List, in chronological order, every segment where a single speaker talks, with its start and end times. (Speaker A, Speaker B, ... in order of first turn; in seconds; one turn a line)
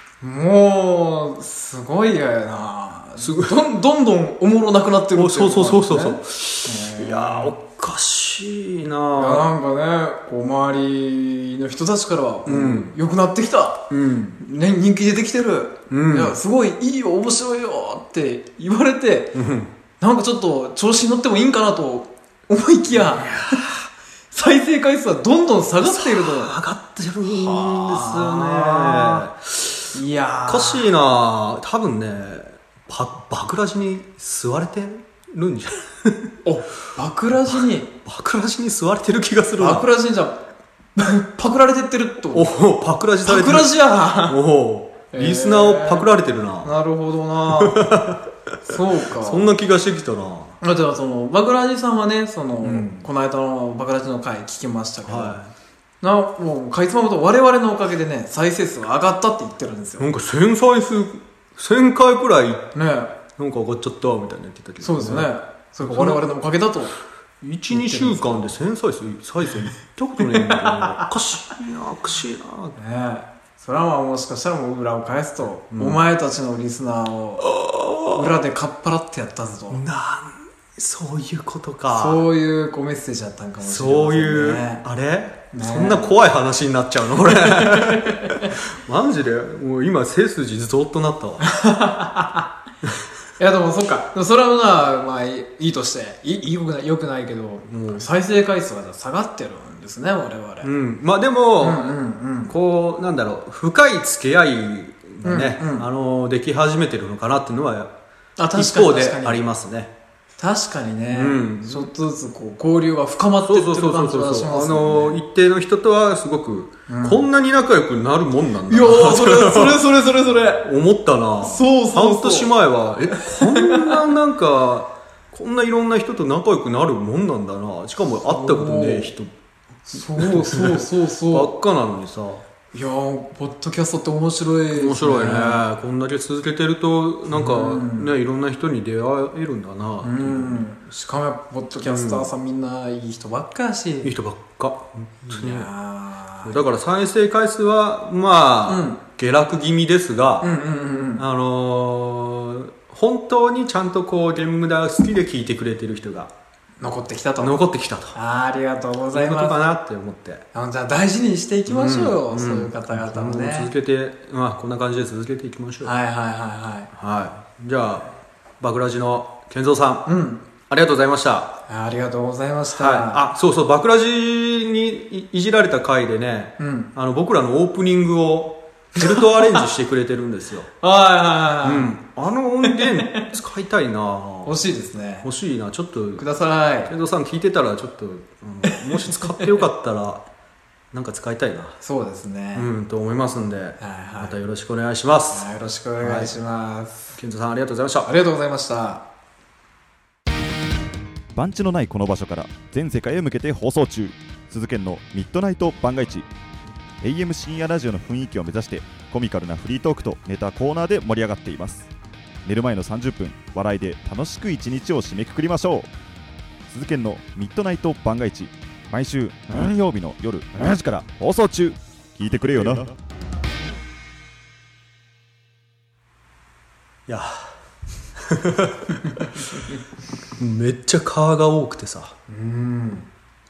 Speaker A: 0.2-7.6
Speaker B: 3.2-3.6
Speaker B: 5.1-9.5
Speaker A: 9.1-19.4
Speaker B: 12.5-12.9
Speaker B: 13.9-14.4
Speaker B: 15.9-16.4
Speaker B: 19.3-19.7
Speaker A: 20.0-23.6
Speaker B: 22.9-23.9
Speaker A: 24.3-26.6
Speaker B: 25.8-29.9
Speaker A: 27.2-29.3
Speaker A: 29.9-30.9
Speaker B: 30.5-36.3
Speaker A: 36.4-37.9
Speaker B: 38.0-39.9
Speaker A: 39.6-40.4
Speaker A: 41.0-42.5
Speaker B: 42.3-46.7
Speaker A: 43.2-44.4
Speaker A: 45.1-46.1
Speaker A: 46.6-48.0
Speaker B: 47.5-50.6
Speaker A: 48.7-49.5
Speaker A: 50.6-55.4
Speaker B: 52.6-53.1
Speaker B: 55.0-55.5
Speaker A: 56.0-60.1
Speaker B: 60.0-62.7
Speaker A: 62.8-63.2
Speaker B: 63.3-65.3
Speaker A: 64.8-66.9
Speaker B: 65.8-66.2
Speaker B: 67.4-72.8
Speaker A: 67.7-68.5
Speaker A: 70.2-71.1
Speaker A: 72.8-77.5
Speaker B: 75.7-76.0
Speaker B: 77.5-78.3
Speaker A: 78.1-79.8
Speaker B: 79.7-82.2
Speaker A: 81.9-84.8
Speaker B: 83.6-91.5
Speaker A: 85.5-86.1
Speaker A: 87.3-88.5
Speaker A: 91.4-92.5
Speaker A: 93.4-100.7
Speaker B: 97.7-98.1
Speaker B: 100.6-107.9
Speaker A: 101.6-102.5
Speaker A: 105.2-105.9
Speaker A: 108.4-109.4
Speaker B: 108.5-109.9
Speaker A: 110.4-115.2
Speaker B: 111.1-111.9
Speaker B: 113.4-119.9
Speaker A: 116.9-117.2
Speaker A: 118.7-120.7
Speaker B: 120.6-129.3
Speaker A: 121.4-122.5
Speaker A: 123.2-124.0
Speaker A: 128.3-129.1
Speaker A: 129.9-131.5
Speaker B: 130.2-132.4
Speaker A: 132.7-135.6
Speaker B: 134.7-140.7
Speaker A: 137.3-138.1
Speaker A: 140.0-144.1
Speaker B: 141.8-142.3
Speaker B: 144.0-145.7
Speaker A: 145.3-146.6
Speaker B: 146.4-150.5
Speaker A: 148.7-149.0
Speaker A: 150.4-151.2
Speaker B: 151.2-156.3
Speaker A: 156.8-159.6
Speaker B: 157.4-158.2
Speaker B: 159.1-160.4
Speaker A: 160.5-163.7
Speaker B: 161.7-165.9
Speaker A: 165.8-166.9
Speaker B: 166.9-170.1
Speaker A: 170.1-170.4
Speaker B: 170.7-171.6
Speaker A: 171.7-173.2
Speaker B: 172.7-180.7
Speaker A: 176.6-176.9
Speaker A: 179.0-179.6
Speaker A: 180.8-181.9
Speaker B: 181.6-184.5
Speaker A: 182.6-183.3
Speaker A: 184.4-185.3
Speaker B: 185.2-186.2
Speaker A: 186.2-186.9
Speaker B: 186.9-190.2
Speaker A: 188.6-189.5
Speaker B: 190.9-191.8
Speaker A: 191.8-192.7
Speaker B: 192.6-195.5
Speaker A: 193.8-194.4
Speaker A: 195.3-197.2
Speaker B: 196.0-196.3
Speaker B: 197.2-198.1
Speaker A: 198.0-199.0
Speaker C: 201.3-206.3
Speaker C: 207.0-211.9
Speaker C: 212.4-215.9
Speaker C: 216.7-222.9
Speaker B: 227.1-227.5
Speaker B: 228.2-229.6
Speaker B: 230.4-232.1
Speaker A: 232.3-233.1